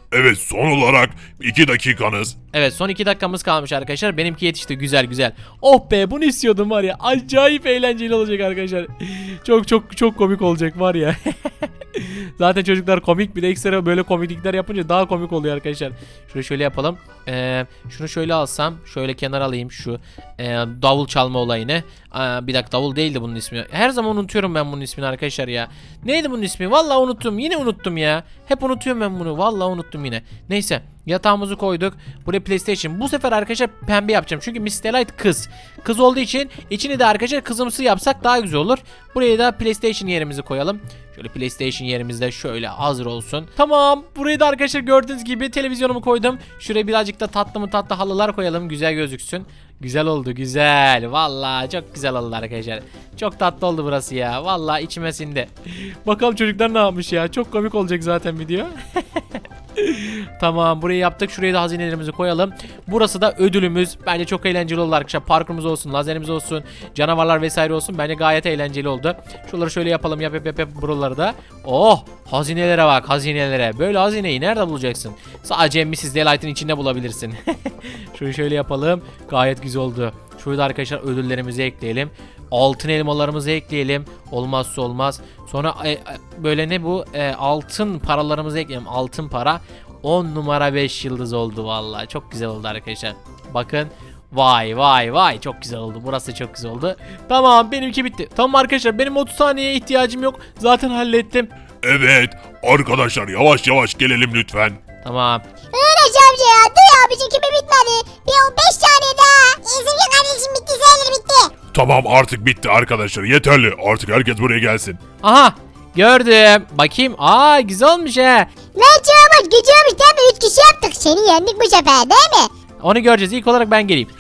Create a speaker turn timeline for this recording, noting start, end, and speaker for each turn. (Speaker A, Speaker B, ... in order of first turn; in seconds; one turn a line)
Speaker A: 0.1-2.4
Speaker B: 2.5-59.2
Speaker B: 59.8-101.5
Speaker A: 101.8-104.8
Speaker B: 105.0-105.4
Speaker C: 105.7-111.5
Speaker A: 111.7-115.0
Speaker B: 115.2-118.5
Speaker C: 118.8-122.5
Speaker B: 122.8-124.1